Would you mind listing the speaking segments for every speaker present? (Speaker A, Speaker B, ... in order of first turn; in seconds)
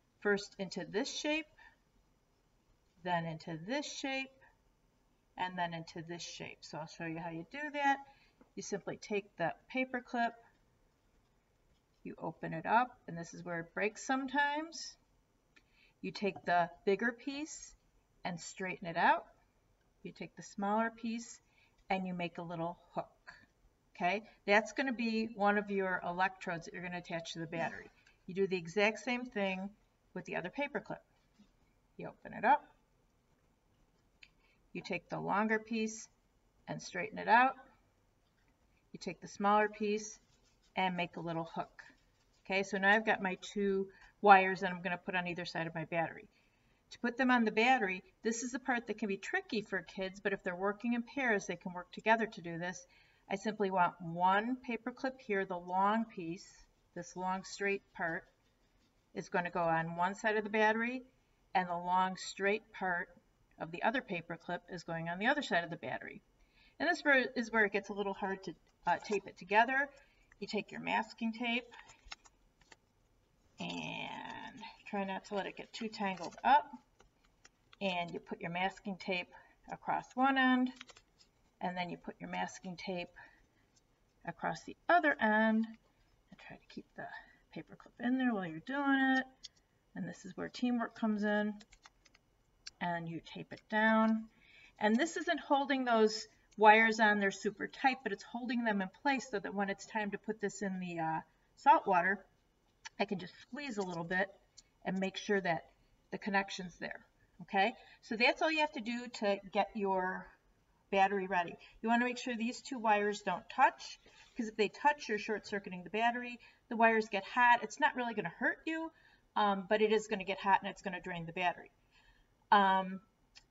Speaker A: 0.2-1.5, 3.0-4.4, 5.4-8.0, 8.6-10.4, 12.0-15.0, 16.0-19.3, 20.0-31.0, 32.0-32.7, 34.7-36.1, 36.7-37.6, 38.9-40.2, 40.8-46.3, 46.9-58.3, 59.1-66.2, 66.8-71.7, 73.6-76.7, 77.8-80.8, 81.6-83.1, 84.2-85.8, 86.3-89.3, 89.9-91.6, 92.8-102.3, 103.0-110.3, 110.9-121.7, 122.5-123.0